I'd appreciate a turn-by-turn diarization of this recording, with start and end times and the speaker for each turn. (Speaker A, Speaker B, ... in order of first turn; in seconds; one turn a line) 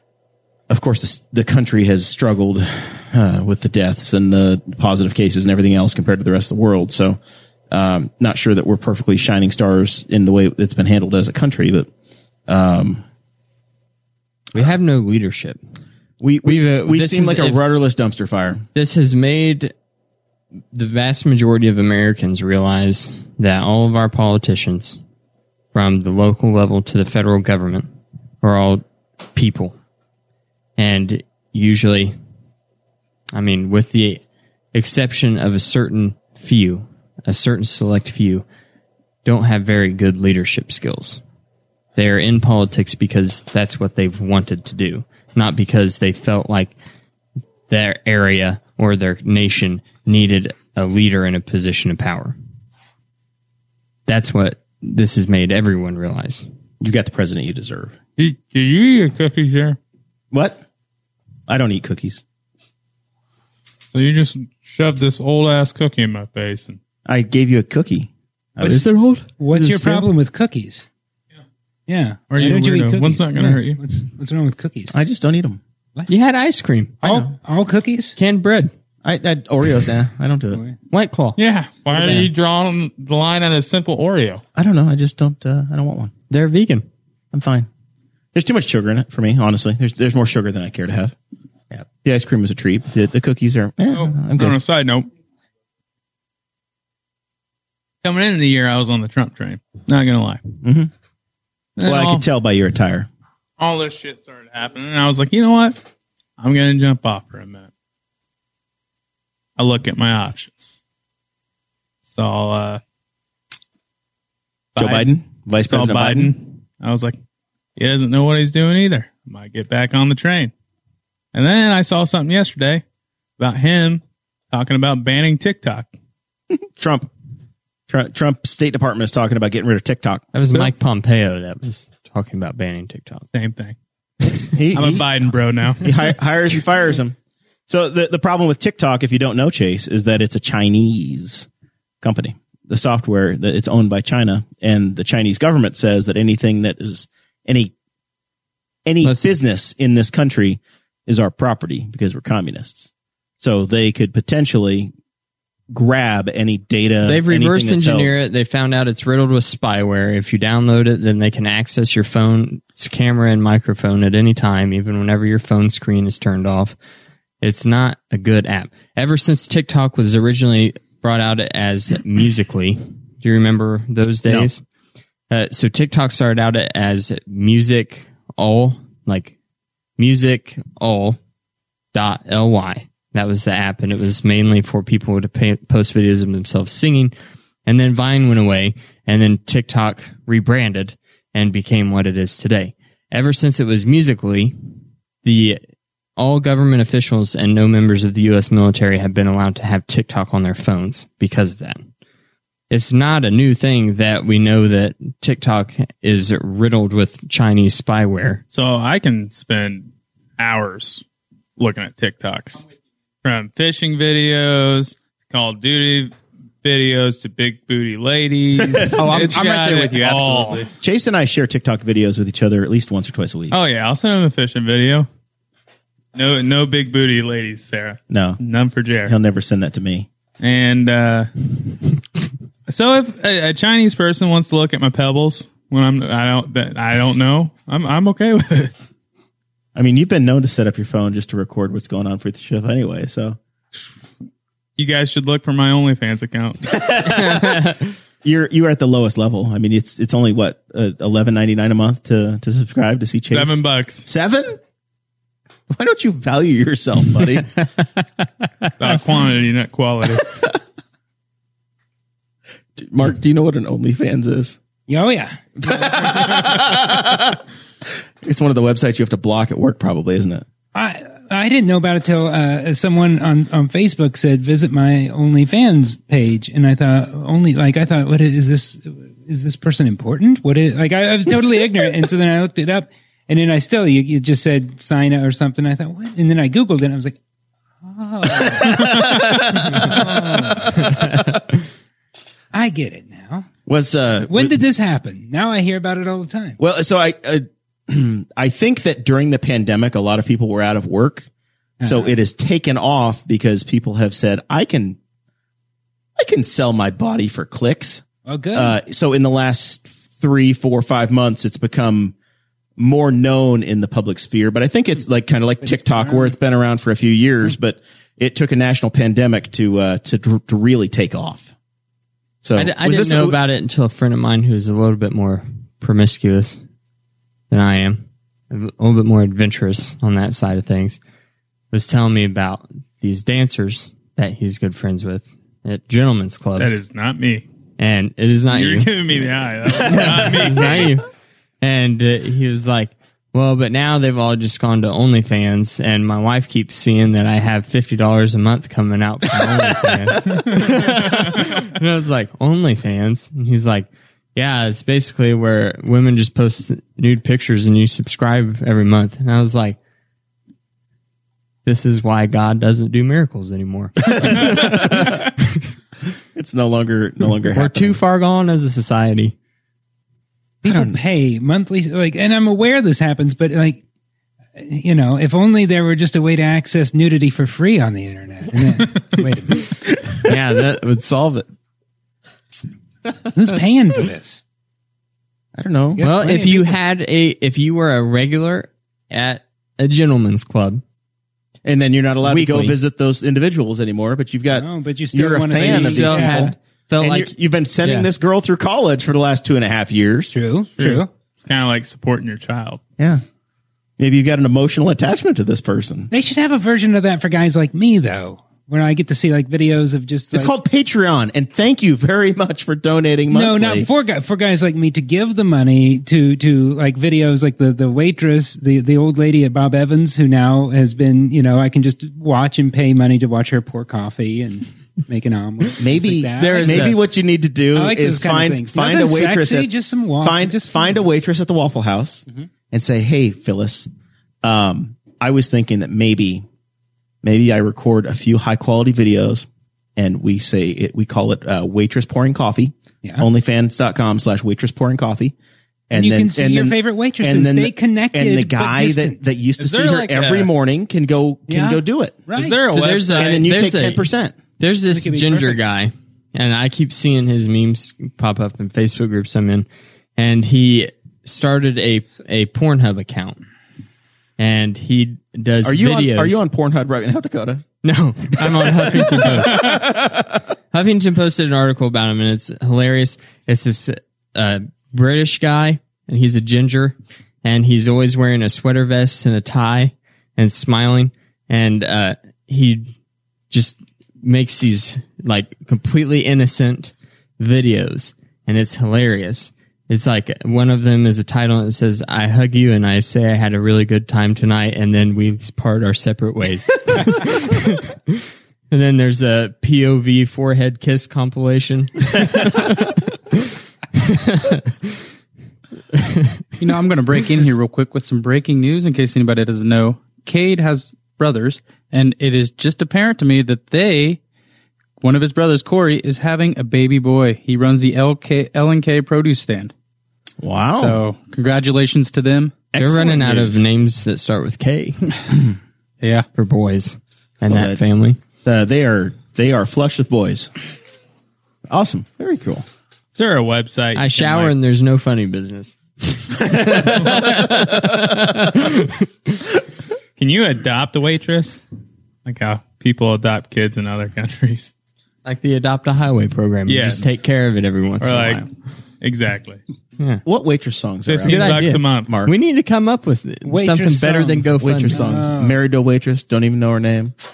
Speaker A: 0.7-7.2
Speaker A: 7.7-11.9
Speaker A: 12.5-13.0
Speaker B: 14.5-15.6
Speaker A: 16.2-18.6
Speaker B: 16.4-17.6
Speaker B: 18.8-19.7
Speaker B: 20.7-25.0
Speaker B: 25.7-27.9
Speaker B: 28.4-29.8
Speaker B: 30.8-32.1
Speaker B: 33.3-34.2
Speaker B: 34.7-38.5
Speaker B: 39.2-41.2
Speaker B: 42.0-46.8
Speaker B: 47.7-52.4
Speaker B: 54.1-56.5
Speaker A: 56.8-58.0
Speaker C: 58.2-59.8
Speaker A: 60.3-60.6
Speaker A: 61.5-62.2
Speaker C: 63.9-66.8
Speaker A: 67.1-70.1
Speaker D: 68.6-68.9
Speaker D: 69.4-70.8
Speaker D: 71.9-74.9
Speaker C: 72.3-73.8
Speaker A: 74.9-75.6
Speaker B: 76.1-77.0
Speaker A: 77.0-77.3
Speaker D: 77.0-78.2
Speaker B: 78.2-78.7
Speaker A: 79.0-80.6
Speaker B: 80.9-81.4
Speaker C: 81.4-84.4
Speaker A: 81.9-82.3
Speaker A: 84.5-86.1
Speaker B: 86.3-86.9
Speaker A: 87.3-87.7
Speaker A: 88.3-91.2
Speaker A: 91.7-94.6
Speaker C: 93.9-95.1
Speaker C: 98.0-100.4
Speaker A: 100.6-100.9
Speaker C: 101.8-102.3
Speaker A: 101.8-103.1
Speaker C: 103.6-105.8
Speaker C: 106.4-107.7
Speaker C: 109.6-110.8
Speaker C: 112.1-112.8
Speaker C: 114.8-115.1
Speaker A: 114.8-116.3
Speaker C: 115.7-117.2
Speaker C: 117.8-120.5
Speaker C: 121.3-122.8
Speaker C: 123.4-124.0
Speaker C: 124.5-125.9
Speaker A: 126.5-127.1
Speaker A: 127.9-130.2
Speaker B: 130.3-133.2
Speaker C: 133.3-133.8
Speaker A: 134.2-137.2
Speaker C: 134.7-135.9
Speaker A: 137.7-141.5
Speaker A: 142.0-147.7
Speaker A: 148.9-154.9
Speaker B: 149.0-149.3
Speaker A: 155.7-158.1
Speaker B: 157.0-166.8
Speaker B: 167.4-174.6
Speaker A: 174.3-174.5
Speaker B: 175.3-179.3
Speaker B: 180.0-181.2
Speaker B: 181.9-187.1
Speaker B: 187.7-194.6
Speaker B: 195.2-195.6
Speaker B: 196.2-201.9
Speaker B: 202.7-208.4
Speaker C: 208.5-211.0
Speaker C: 211.6-212.6
Speaker C: 213.2-220.7
Speaker A: 218.6-219.0
Speaker E: 218.9-220.7
Speaker A: 220.8-223.6
Speaker C: 223.5-225.1
Speaker C: 226.2-229.2
Speaker A: 228.1-228.4
Speaker A: 229.1-230.1
Speaker C: 230.4-231.5
Speaker C: 232.7-238.7
Speaker A: 239.8-243.4
Speaker C: 244.8-246.7
Speaker A: 246.7-254.6
Speaker C: 253.3-254.1
Speaker A: 255.7-257.6
Speaker C: 258.8-260.4
Speaker A: 262.8-264.6
Speaker D: 264.9-265.8
Speaker A: 265.6-267.4
Speaker A: 268.2-270.4
Speaker D: 270.7-287.2
Speaker D: 287.8-290.9
Speaker A: 288.3-291.3
Speaker D: 292.5-293.5
Speaker A: 293.7-294.6
Speaker D: 294.3-296.6
Speaker A: 296.6-301.3
Speaker D: 301.8-302.2
Speaker A: 301.8-305.0
Speaker A: 306.2-312.1
Speaker D: 308.3-308.8
Speaker A: 312.8-321.5
Speaker D: 315.6-316.3
Speaker A: 322.4-323.4
Speaker B: 322.6-326.6
Speaker B: 327.5-331.0
Speaker B: 331.7-336.8
Speaker C: 336.6-337.4
Speaker B: 337.8-338.9
Speaker C: 338.5-340.9
Speaker A: 339.8-340.6
Speaker B: 339.9-341.1
Speaker B: 341.6-359.8
Speaker B: 361.6-365.6
Speaker A: 364.1-365.2
Speaker A: 366.4-368.0
Speaker B: 367.5-369.4
Speaker D: 370.6-373.8
Speaker D: 374.6-379.8
Speaker B: 380.2-381.5
Speaker D: 383.3-384.4
Speaker A: 385.6-386.6
Speaker D: 385.9-386.7
Speaker B: 386.0-390.8
Speaker A: 391.6-400.4
Speaker B: 392.2-392.8
Speaker D: 394.5-396.5
Speaker B: 395.6-397.3
Speaker D: 400.3-401.1
Speaker C: 400.8-402.8
Speaker A: 404.0-406.1
Speaker D: 406.1-410.5
Speaker A: 410.3-413.9
Speaker D: 413.3-426.9
Speaker A: 425.8-433.9
Speaker B: 426.4-427.0
Speaker D: 427.7-431.0
Speaker A: 434.4-436.4
Speaker A: 437.2-445.4
Speaker A: 445.9-452.2
Speaker D: 445.9-449.2
Speaker C: 449.6-450.5
Speaker D: 451.5-452.6
Speaker C: 452.3-453.3
Speaker B: 452.6-454.1
Speaker A: 453.1-454.4
Speaker B: 454.6-463.4
Speaker D: 454.9-455.6
Speaker B: 464.4-466.4
Speaker A: 465.6-467.6
Speaker B: 467.8-469.8
Speaker A: 468.4-470.4
Speaker B: 470.7-482.9
Speaker B: 483.5-503.4
Speaker B: 504.0-504.9
Speaker B: 505.9-506.4
Speaker E: 506.6-514.2
Speaker E: 515.0-519.7
Speaker A: 520.4-521.0
Speaker E: 520.7-522.5
Speaker A: 522.7-523.6
Speaker B: 522.8-525.1
Speaker B: 526.4-528.2
Speaker A: 527.5-527.8
Speaker A: 528.4-530.5
Speaker A: 531.7-532.7
Speaker C: 533.1-534.5
Speaker B: 534.0-539.1
Speaker A: 536.5-537.8
Speaker C: 540.2-541.7
Speaker C: 542.2-544.7
Speaker B: 545.2-548.5
Speaker C: 546.7-547.2
Speaker C: 548.0-548.5
Speaker C: 549.0-549.6
Speaker A: 550.2-552.4
Speaker C: 551.1-552.1
Speaker B: 551.3-555.1
Speaker D: 553.5-555.6
Speaker A: 554.6-557.1